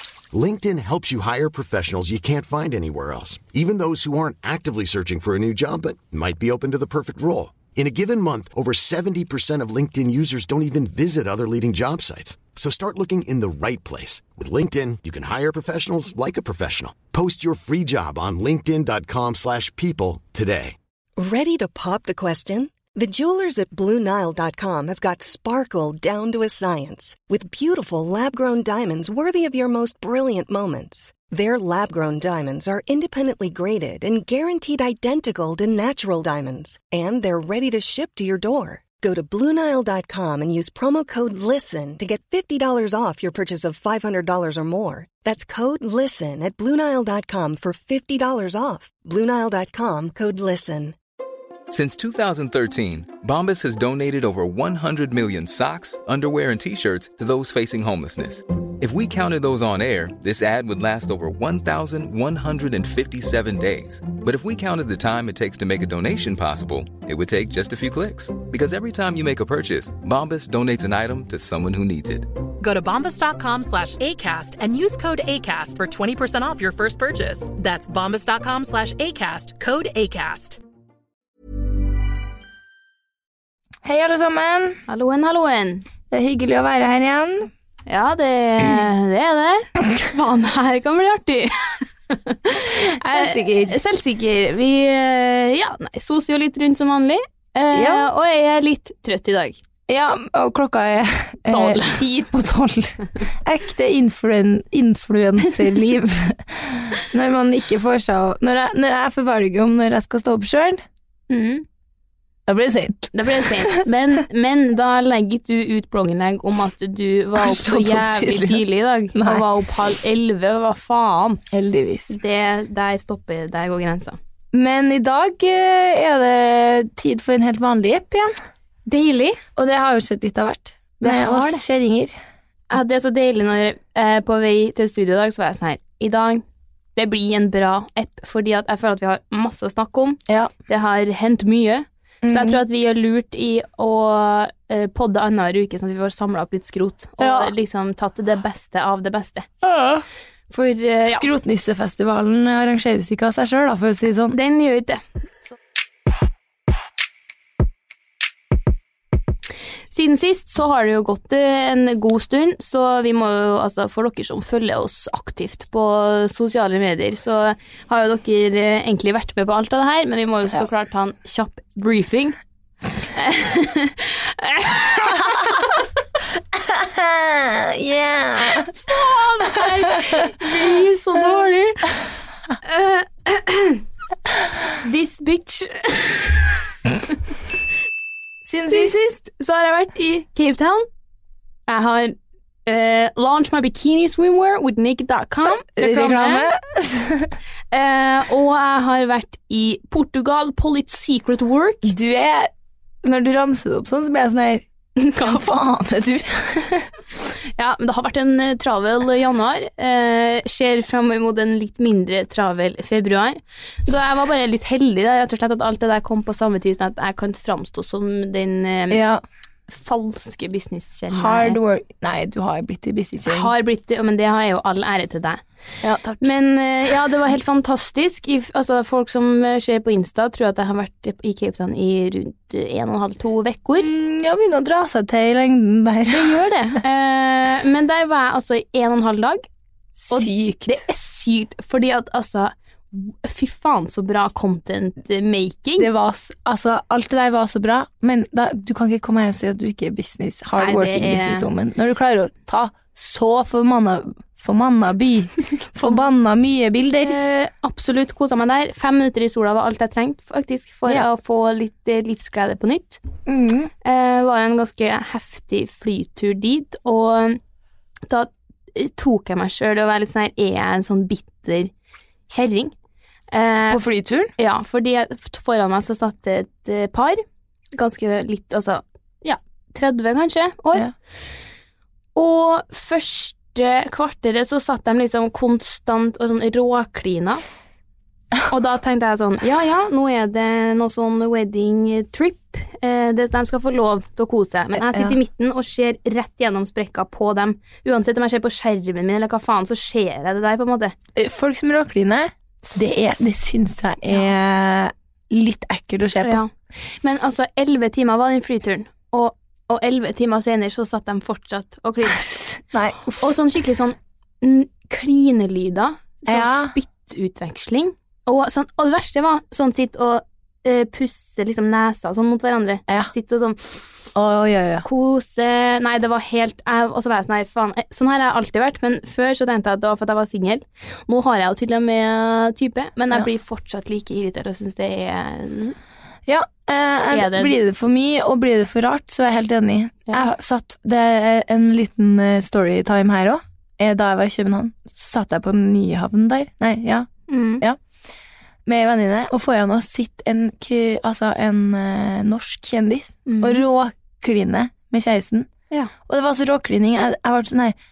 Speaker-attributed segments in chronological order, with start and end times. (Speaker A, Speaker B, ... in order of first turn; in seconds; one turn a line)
Speaker A: 0.3-20.7
Speaker B: 21.2-51.0
Speaker C: 51.7-72.3
Speaker D: 72.6-80.6
Speaker E: 83.8-84.8
Speaker F: 84.9-85.8
Speaker E: 86.1-87.5
Speaker F: 87.9-99.6
Speaker E: 93.0-93.7
Speaker E: 97.7-98.1
Speaker E: 99.9-110.8
Speaker F: 101.5-102.3
Speaker F: 111.3-111.7
Speaker E: 112.5-113.8
Speaker F: 113.1-121.4
Speaker E: 117.3-118.6
Speaker E: 119.1-119.5
Speaker E: 121.5-122.2
Speaker F: 122.1-124.2
Speaker E: 124.5-128.3
Speaker F: 128.8-129.4
Speaker E: 129.6-132.1
Speaker F: 131.0-131.6
Speaker F: 132.7-136.4
Speaker F: 136.9-149.5
Speaker E: 142.2-142.6
Speaker E: 147.2-147.5
Speaker E: 149.6-150.0
Speaker F: 150.5-151.3
Speaker E: 151.1-154.3
Speaker F: 154.3-155.5
Speaker F: 159.9-172.4
Speaker F: 173.1-175.7
Speaker E: 176.7-178.8
Speaker F: 178.8-181.9
Speaker F: 182.6-183.8
Speaker F: 184.8-186.5
Speaker E: 188.4-189.0
Speaker F: 188.7-190.9
Speaker F: 191.7-196.5
Speaker E: 195.7-197.3
Speaker F: 197.7-201.9
Speaker E: 201.8-202.5
Speaker E: 203.0-204.6
Speaker F: 205.0-205.5
Speaker E: 205.2-206.9
Speaker F: 207.6-219.0
Speaker E: 218.9-219.2
Speaker F: 219.7-221.6
Speaker E: 221.1-223.5
Speaker F: 223.2-225.4
Speaker E: 225.8-226.3
Speaker F: 226.2-233.9
Speaker E: 233.8-236.4
Speaker F: 236.1-239.4
Speaker E: 240.1-240.8
Speaker F: 240.1-245.9
Speaker E: 245.8-257.2
Speaker F: 250.6-251.5
Speaker F: 257.0-263.0
Speaker E: 263.2-263.7
Speaker F: 263.8-267.4
Speaker F: 268.1-271.7
Speaker F: 272.3-272.7
Speaker F: 273.3-273.8
Speaker E: 273.7-274.3
Speaker F: 274.4-280.9
Speaker F: 282.1-287.4
Speaker F: 288.5-300.9
Speaker E: 294.7-295.2
Speaker E: 301.1-306.4
Speaker F: 306.2-312.6
Speaker E: 312.3-313.2
Speaker F: 313.1-323.7
Speaker E: 316.3-316.7
Speaker E: 324.1-324.9
Speaker F: 324.8-335.8
Speaker E: 336.3-347.1
Speaker F: 337.1-337.5
Speaker F: 347.3-347.6
Speaker E: 348.6-355.5
Speaker F: 353.2-353.6
Speaker E: 356.1-357.7